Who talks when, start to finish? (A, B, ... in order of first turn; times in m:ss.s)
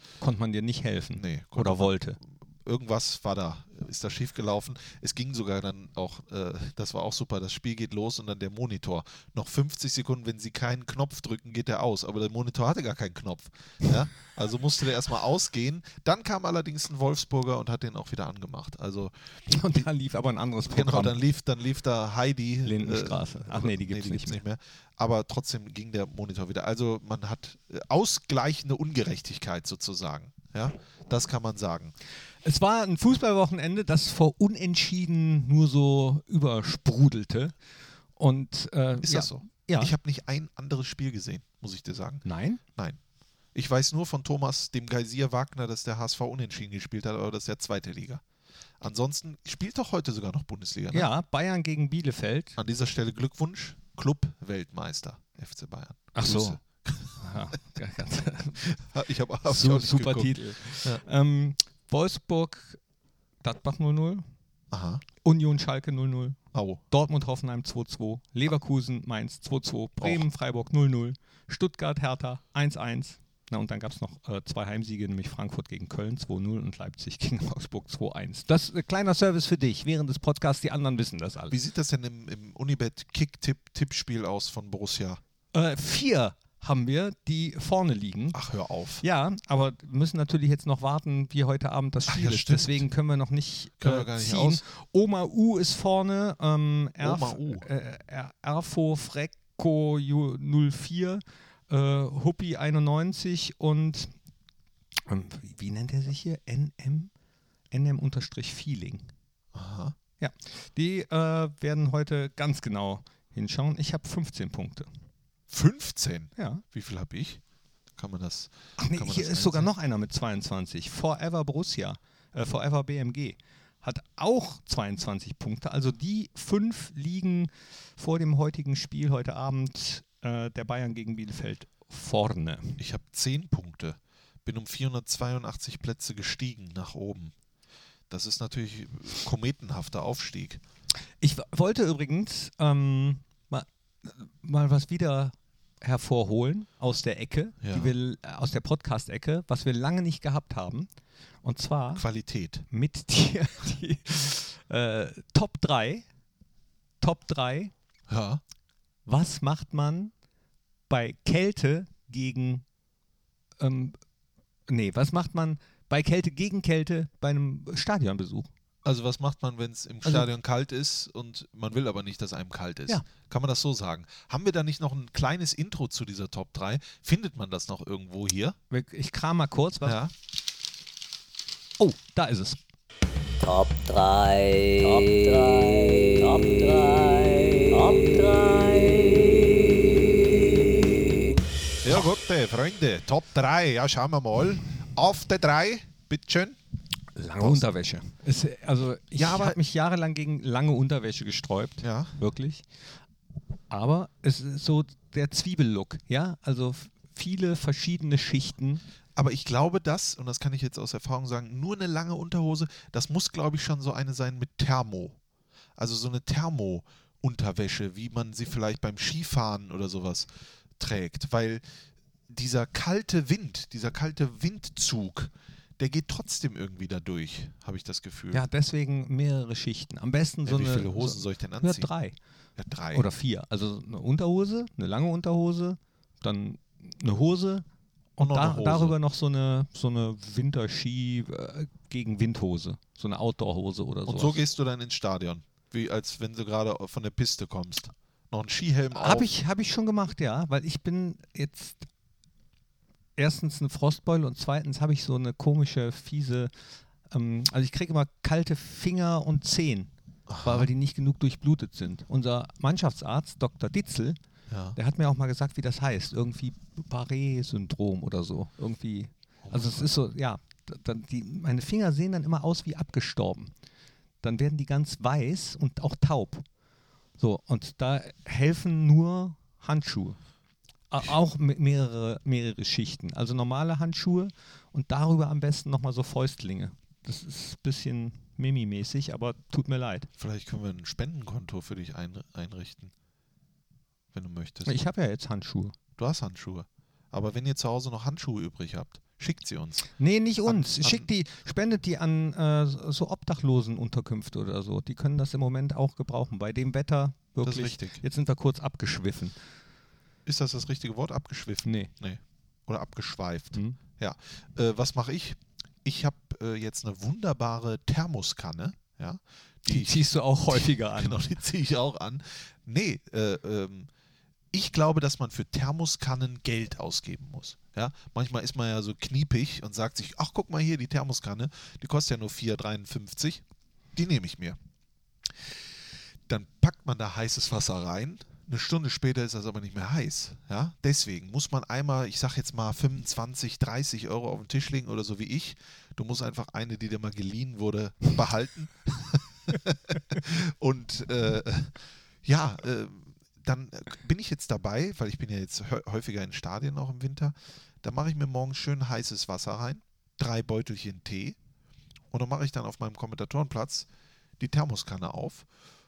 0:00.2-0:02.2 A
0:01.2-0:19.1 B
0:19.5-0:21.2 A
0:20.7-0:31.9 B
0:22.6-0:24.4 A
0:32.4-0:37.5 A
0:38.2-0:39.9 A
0:39.0-0:43.0 B
0:42.2-0:42.6 A
0:43.6-0:48.2 B
0:48.8-0:51.1 B
0:50.9-0:52.6 A
0:52.6-0:57.6 B
0:56.1-0:56.6 A
0:57.2-0:58.7 A
0:58.6-1:01.0 B
0:59.5-1:02.8 A
1:03.4-1:04.2 A
1:04.7-1:05.0 B
1:05.2-1:06.4 A
1:06.5-1:06.8 B
1:06.9-1:21.6 A
1:10.0-1:10.2 B
1:21.5-1:25.2 B
1:25.5-1:28.4 A
1:28.3-1:29.0 B
1:29.0-1:44.1 A
1:32.1-1:32.9 B
1:33.8-1:34.6 B
1:37.0-1:37.7 B
1:45.1-1:47.1 A
1:47.7-1:49.1 A
1:49.5-1:50.0 B
1:50.2-1:54.9 A
1:55.5-1:57.4 B
1:56.4-1:56.6 A
1:58.0-1:59.7 B
1:58.8-2:12.8 A
2:12.8-2:17.3 B
2:18.1-2:20.6 B
2:21.2-2:30.9 A
2:27.6-2:27.9 B
2:31.4-2:32.0 A
2:32.0-2:32.7 B
2:32.7-2:36.1 A
2:37.0-2:37.7 A
2:38.1-2:38.4 B
2:39.1-2:40.1 A
2:40.9-2:42.6 A
2:43.6-2:44.0 A
2:44.7-2:48.5 A
2:48.8-2:58.6 B
2:58.7-3:00.0 A
2:59.8-3:00.1 B
3:01.8-3:02.6 A
3:03.4-3:09.6 C
3:11.8-3:16.6 B
3:17.2-3:22.7 A
3:17.4-3:17.7 B
3:19.2-3:19.6 B
3:21.8-3:22.2 B
3:23.7-3:28.8 A
3:29.2-3:35.2 B
3:35.8-3:41.6 B
3:42.3-3:48.4 B
3:48.3-3:52.2 A
3:50.5-3:51.9 B
3:52.6-3:53.1 B
3:52.9-3:57.7 A
3:58.2-4:04.4 A
3:58.2-3:59.0 B
4:04.1-4:09.3 B
4:08.9-4:11.9 A
4:13.2-4:16.5 A
4:17.1-4:19.9 A
4:20.3-4:20.7 B
4:20.4-4:24.2 A
4:24.5-4:24.8 B
4:24.8-4:33.5 A
4:29.4-4:30.0 B
4:34.2-4:36.4 A
4:37.2-4:40.2 A
4:40.9-4:50.1 A
4:50.2-4:52.9 B
4:54.1-4:54.8 B
4:54.7-4:55.8 A
4:56.0-4:59.9 B
5:00.0-5:09.4 A
5:00.5-5:01.1 B
5:07.4-5:08.0 B
5:10.3-5:23.9 B
5:11.6-5:11.9 A
5:19.7-5:21.2 A
5:24.5-5:34.6 B
5:36.3-6:01.4 B
6:02.1-6:03.9 B
6:04.4-6:05.5 B